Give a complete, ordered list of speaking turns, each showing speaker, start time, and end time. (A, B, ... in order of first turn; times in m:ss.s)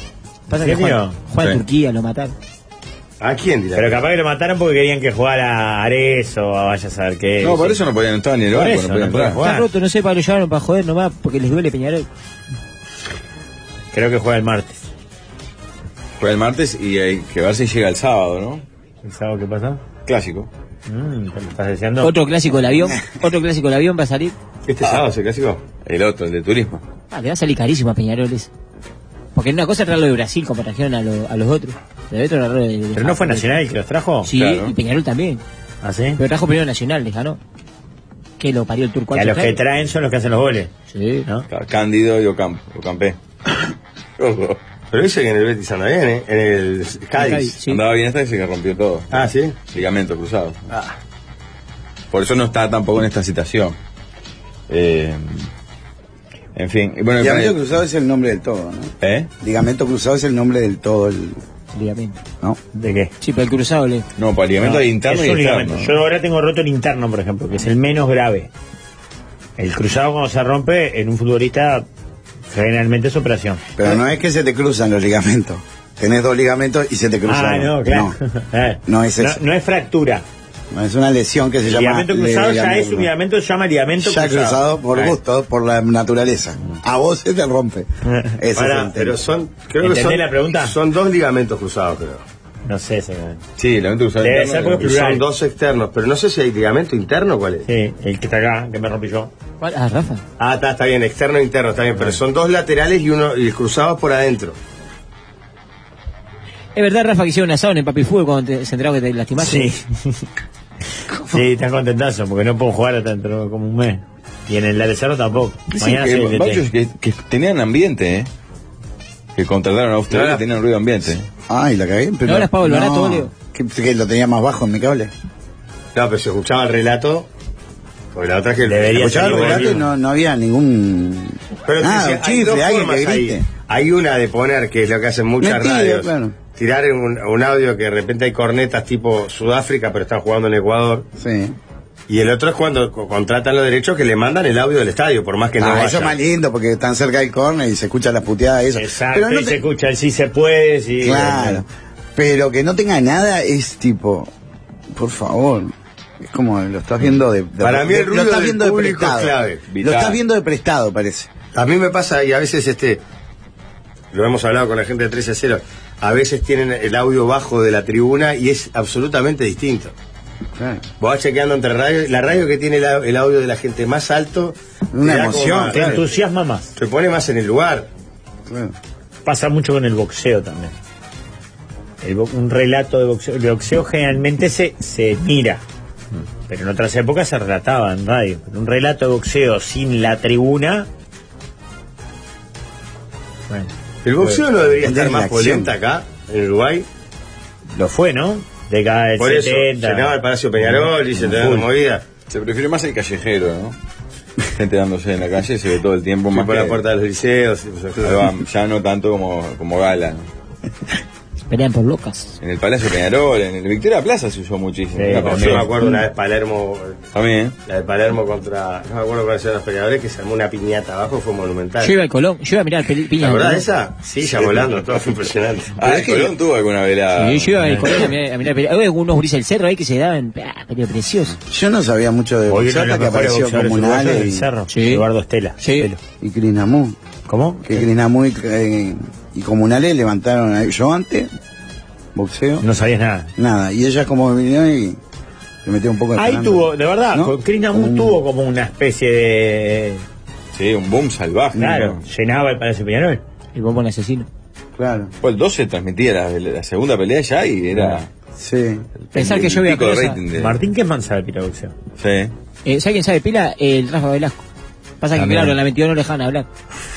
0:00.5-0:02.3 A
0:00.6-0:01.2 B
0:03.2-0:04.0 C
0:03.7-0:07.8 B
0:07.4-0:09.4 D
0:08.5-0:09.6 B
0:09.4-0:12.0 A
0:13.9-0:14.8 B
0:16.2-0:18.6 D
0:19.0-0:19.8 B
0:20.0-0:20.5 D
0:20.9-0:22.1 B
0:22.0-0:24.3 A
0:24.7-0:25.6 C
0:25.8-0:26.8 D
0:27.1-0:28.5 A
0:29.3-0:33.5 A
0:32.9-0:34.3 B
0:34.2-0:35.4 A
0:34.3-0:34.7 D
0:35.8-0:36.2 B
0:36.2-0:37.4 A
0:38.4-0:39.6 A
0:39.1-0:40.7 B
0:40.9-0:41.2 A
0:41.5-0:43.2 D
0:44.2-0:44.6 D
0:44.9-0:47.5 C
0:47.2-0:47.8 A
0:47.6-0:50.6 D
0:49.1-0:49.6 C
0:52.1-0:53.8 D
0:54.7-0:55.5 D
0:56.6-0:57.6 D
0:57.2-1:01.4 E
0:59.0-0:59.3 D
1:01.7-1:02.2 A
1:02.7-1:03.1 B
1:03.2-1:04.0 A
1:04.2-1:05.9 D
1:04.6-1:08.5 B
1:09.6-1:11.8 B
1:12.5-1:13.9 B
1:13.8-1:18.2 E
1:17.3-1:20.2 B
1:18.8-1:19.4 E
1:20.7-1:23.1 E
1:21.6-1:25.1 B
1:24.0-1:27.9 E
1:28.0-1:28.3 B
1:28.4-1:29.2 E
1:28.5-1:32.2 C
1:29.8-1:30.7 B
1:32.6-1:33.4 B
1:33.6-1:34.8 D
1:34.2-1:35.2 B
1:34.8-1:37.6 C
1:37.6-1:39.3 B
1:39.6-1:40.2 A
1:40.4-1:44.6 C
1:46.7-1:49.7 A
1:49.4-1:50.2 B
1:51.3-1:56.6 B
1:55.7-1:58.3 D
1:59.4-2:01.2 D
2:00.1-2:00.4 C
2:01.5-2:05.1 E
2:02.2-2:03.3 A
2:05.9-2:07.3 C
2:08.1-2:09.8 C
2:08.6-2:09.8 B
2:09.0-2:13.4 E
2:11.6-2:21.1 C
2:15.4-2:16.4 E
2:21.2-2:21.6 E
2:22.1-2:26.2 C
2:25.6-2:29.6 E
2:28.7-2:31.6 B
2:31.0-2:34.3 E
2:34.9-2:41.3 E
2:37.6-2:39.6 C
2:39.7-2:40.2 D
2:41.5-2:43.0 C
2:44.1-2:49.9 C
2:50.6-2:50.8 E
2:51.0-2:56.1 C
2:54.9-2:56.0 E
2:55.6-2:56.7 B
2:56.8-2:57.9 C
2:58.5-2:58.7 E
2:59.2-3:00.7 B
3:02.0-3:05.6 B
3:06.5-3:10.9 B
3:14.0-3:16.8 C
3:14.8-3:15.7 E
3:17.8-3:20.1 B
3:19.2-3:22.0 C
3:20.6-3:21.6 B
3:22.3-3:23.8 D
3:24.6-3:26.8 D
3:26.3-3:28.3 C
3:28.0-3:30.2 D
3:31.5-3:32.4 A
3:32.4-3:35.7 D
3:34.9-3:35.7 B
3:35.1-3:37.0 C
3:37.1-3:37.6 D
3:37.6-3:41.9 C
3:41.8-3:43.7 A
3:43.2-3:46.3 C
3:45.8-3:48.1 D
3:47.1-3:51.4 A
3:51.5-3:54.5 E
3:52.5-3:56.0 B
3:54.7-3:55.0 A
3:55.6-3:55.9 A
3:56.2-3:57.0 E
3:57.3-3:57.8 B
3:57.6-4:01.3 E
4:02.1-4:02.6 E
4:02.6-4:03.3 B
4:03.4-4:05.0 E
4:05.6-4:08.2 E
4:06.2-4:10.0 B
4:10.5-4:12.0 D
4:11.5-4:13.2 B
4:13.5-4:14.3 A
4:14.8-4:15.1 E
4:15.2-4:18.1 D
4:18.4-4:18.8 E
4:19.1-4:20.6 D
4:19.1-4:20.2 A
4:20.3-4:21.7 B
4:22.0-4:22.3 D
4:22.6-4:24.4 A
4:25.0-4:26.5 A